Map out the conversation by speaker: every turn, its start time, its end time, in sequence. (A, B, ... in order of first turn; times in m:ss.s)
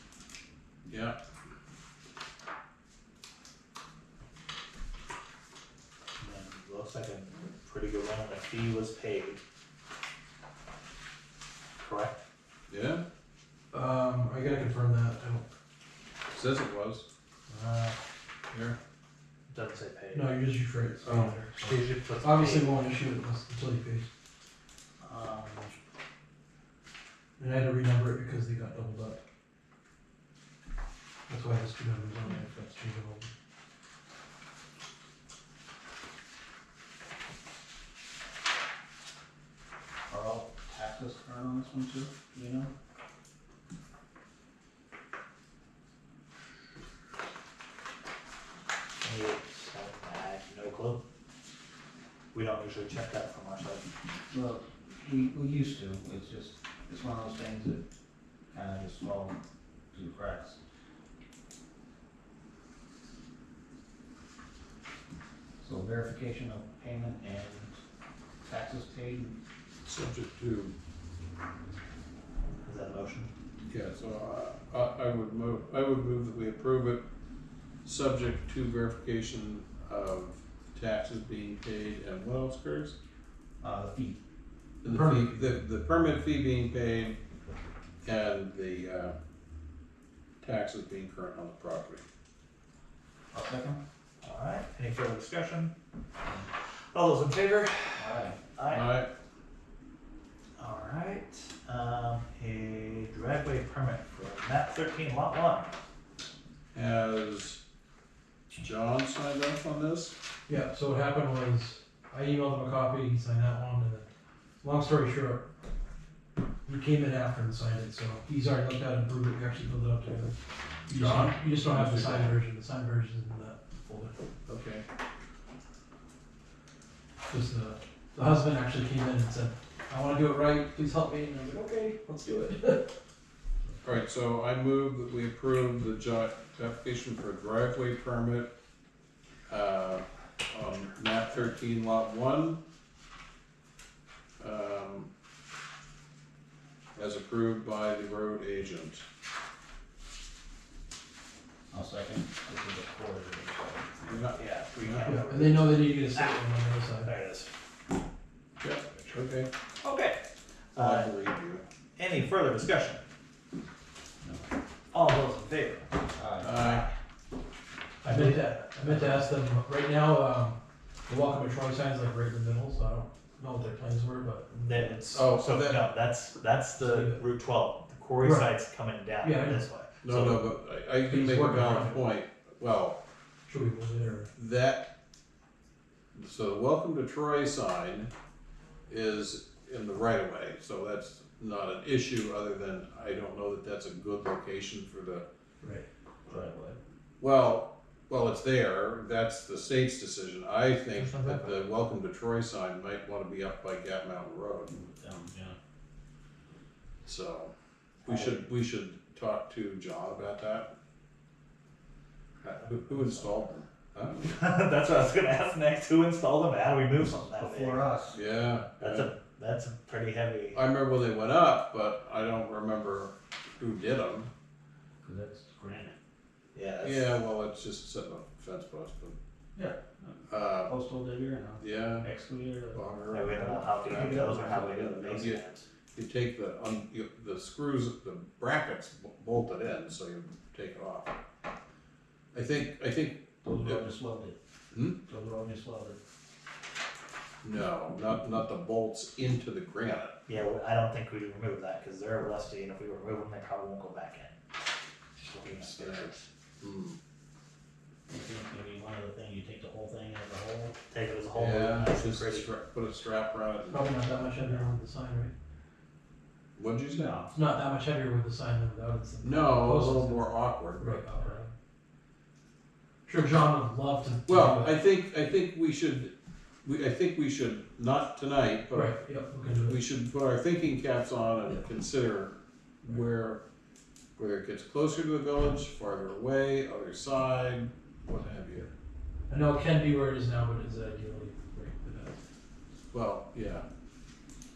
0:00.9-0:01.2 A
0:06.2-0:09.4 B
0:11.8-0:12.2 B
0:12.7-0:13.0 A
0:13.7-0:15.5 C
0:16.3-0:17.0 A
0:17.5-0:18.0 B
0:18.5-0:18.8 A
0:19.5-0:20.4 B
0:20.1-0:24.1 C
0:21.0-0:22.8 B
0:25.0-0:25.8 B
0:27.4-0:29.2 C
0:31.3-0:33.3 C
0:40.1-0:42.7 D
0:49.0-0:51.0 B
0:52.3-0:53.9 B
0:54.3-0:57.8 D
0:58.5-0:59.4 D
0:59.9-1:00.6 D
1:05.6-1:07.8 D
1:08.4-1:09.4 D
1:09.8-1:10.7 A
1:12.6-1:13.3 B
1:13.7-1:17.0 A
1:17.8-1:23.0 A
1:23.6-1:24.2 D
1:24.8-1:27.2 A
1:24.9-1:25.5 C
1:28.0-1:29.2 A
1:30.4-1:32.0 A
1:33.3-1:33.8 D
1:34.2-1:35.7 B
1:36.9-1:38.9 B
1:38.0-1:38.4 D
1:38.7-1:39.1 A
1:40.6-1:45.7 B
1:46.7-1:47.6 A
1:48.5-1:50.1 A
1:50.5-1:54.1 C
1:54.6-1:55.4 C
1:56.7-2:00.4 C
2:00.9-2:04.1 C
2:00.9-2:02.4 A
2:04.5-2:04.8 A
2:07.3-2:12.9 C
2:13.8-2:18.5 A
2:19.5-2:22.6 A
2:24.4-2:25.1 A
2:27.0-2:29.0 A
2:31.7-2:34.0 D
2:34.0-2:35.1 A
2:34.3-2:36.4 B
2:35.0-2:37.1 C
2:37.0-2:37.5 B
2:38.6-2:39.5 A
2:39.8-2:40.2 B
2:40.8-2:41.1 B
2:40.8-2:41.6 A
2:42.0-2:43.0 B
2:44.2-2:44.5 D
2:44.9-2:46.9 B
2:46.2-2:46.5 D
2:46.4-2:46.9 A
2:48.0-2:49.2 B
2:48.0-2:54.6 C
2:54.5-3:00.3 B
2:55.1-2:55.8 A
2:56.8-2:57.2 C
2:58.2-2:58.5 C
2:59.2-3:00.4 C
3:00.0-3:03.0 A
3:01.0-3:02.0 C
3:03.5-3:04.3 C
3:04.4-3:04.9 A
3:06.1-3:08.1 A
3:08.9-3:15.2 A
3:16.3-3:16.8 D
3:17.2-3:24.7 A
3:21.0-3:21.6 B
3:24.7-3:25.6 D
3:27.0-3:27.5 A
3:28.0-3:30.7 A
3:32.4-3:34.3 A
3:32.6-3:33.3 B
3:34.2-3:37.9 B
3:37.4-3:38.2 D
3:38.1-3:39.1 A
3:38.8-3:40.6 B
3:40.5-3:44.3 A
3:45.0-3:46.0 D
3:46.5-3:47.1 B
3:46.8-3:49.2 A
3:49.6-3:54.7 D
3:50.3-3:50.7 A
3:51.6-3:52.1 A
3:52.7-3:55.4 A
3:53.1-3:55.6 B
3:56.0-4:01.2 A
4:02.3-4:03.8 A
4:03.4-4:04.4 D
4:04.7-4:05.0 A
4:05.0-4:06.0 D
4:07.4-4:10.2 A
4:10.3-4:14.4 B
4:15.2-4:16.3 B
4:15.4-4:17.0 A
4:18.1-4:20.8 D
4:20.9-4:22.5 B
4:21.4-4:23.9 A
4:23.7-4:25.3 C
4:26.6-4:27.1 A
4:26.9-4:27.3 D
4:27.3-4:31.5 C
4:29.2-4:31.1 A
4:33.1-4:34.8 C
4:34.3-4:36.1 A
4:36.6-4:39.0 A
4:38.7-4:39.8 C
4:39.7-4:43.4 A
4:44.2-4:48.7 A
4:49.3-4:52.2 C
4:52.9-4:53.6 A